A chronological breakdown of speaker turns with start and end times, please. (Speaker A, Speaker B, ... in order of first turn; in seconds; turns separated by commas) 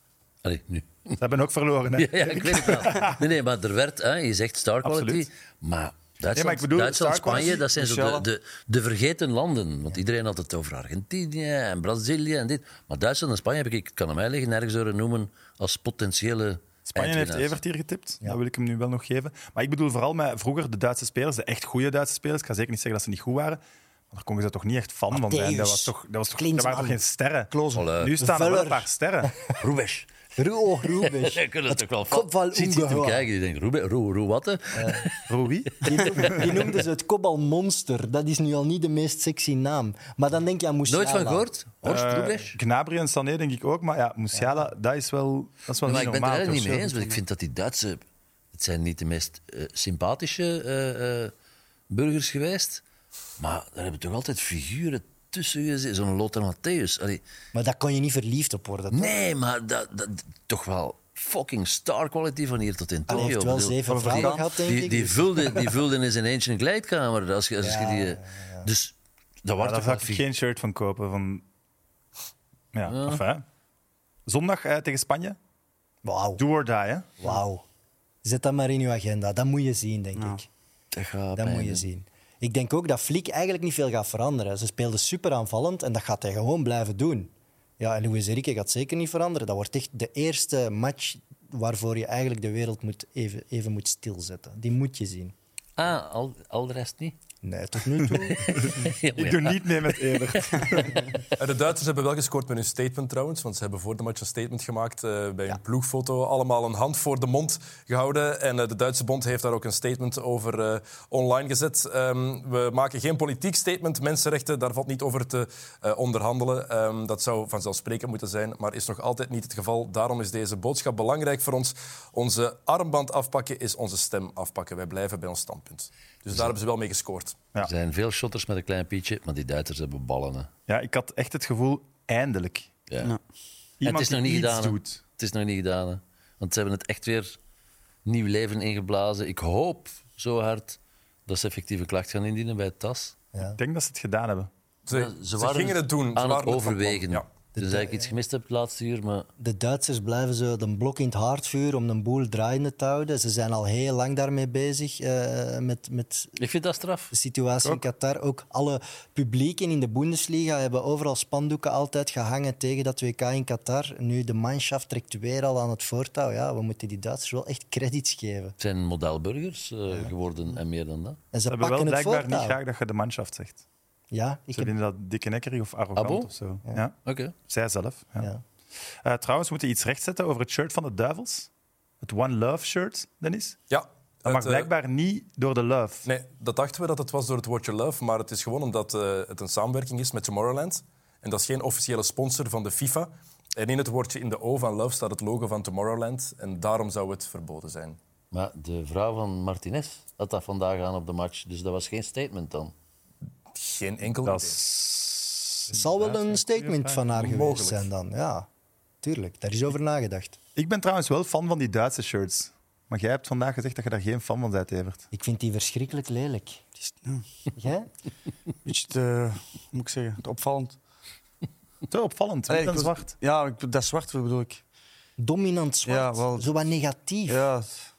Speaker A: 0.4-1.2, Speaker B: 1.2-3.1, Speaker A: 1.9-17.6, Speaker B: 4.8-5.3, Speaker B: 6.3-7.7, Speaker C: 7.6-8.2, Speaker B: 16.9-29.3, Speaker D: 25.1-27.0, Speaker C: 27.5-27.9, Speaker A: 27.7-28.2, Speaker D: 28.2-29.4, Speaker A: 29.6-30.1, Speaker D: 30.4-33.3, Speaker A: 31.0-35.2, Speaker D: 34.7-35.1, Speaker B: 35.3-36.6, Speaker D: 35.8-41.5, Speaker A: 40.9-42.6, Speaker B: 41.8-47.1, Speaker A: 45.9-51.3, Speaker A: 51.9-52.8, Speaker A: 53.4-57.2, Speaker D: 57.5-59.2, Speaker A: 58.9-70.2, Speaker D: 63.1-65.8, Speaker C: 63.9-64.6, Speaker D: 67.6-68.7, Speaker B: 69.6-71.4, Speaker B: 72.7-73.4, Speaker A: 72.9-73.2, Speaker B: 74.2-75.4, Speaker D: 76.0-76.4, Speaker B: 76.4-77.1, Speaker D: 77.2-77.6, Speaker D: 78.2-80.5, Speaker A: 80.9-81.8, Speaker D: 81.4-95.3, Speaker A: 95.8-97.2, Speaker D: 97.4-98.8, Speaker A: 98.5-100.8, Speaker B: 98.5-101.1, Speaker E: 101.4-127.4, Speaker A: 127.6-130.5, Speaker B: 130.7-132.7, Speaker B: 133.8-135.0, Speaker A: 133.8-137.4, Speaker A: 138.1-143.1, Speaker B: 143.5-144.5, Speaker E: 144.9-147.2, Speaker A: 144.9-149.3, Speaker D: 147.6-148.1, Speaker D: 149.4-156.4, Speaker A: 156.4-157.1, Speaker D: 157.1-168.6, Speaker A: 168.6-171.2, Speaker D: 171.3-172.6, Speaker B: 171.5-173.6, Speaker D: 174.1-174.7, Speaker B: 174.5-178.3, Speaker A: 175.9-176.3, Speaker A: 177.0-177.3, Speaker B: 179.0-181.5, Speaker B: 182.0-183.6, Speaker E: 183.7-184.7, Speaker B: 184.2-186.0, Speaker E: 186.0-198.0, Speaker A: 198.3-202.7, Speaker E: 203.6-204.6, Speaker B: 204.2-207.6, Speaker D: 205.7-208.5, Speaker E: 207.2-207.9, Speaker D: 209.0-210.4, Speaker B: 210.6-215.0, Speaker D: 215.1-216.6, Speaker C: 216.8-217.2, Speaker D: 217.6-217.9, Speaker C: 218.6-220.8, Speaker B: 221.9-223.1, Speaker C: 222.5-224.6, Speaker D: 225.2-227.4, Speaker C: 225.8-226.5, Speaker C: 227.3-227.8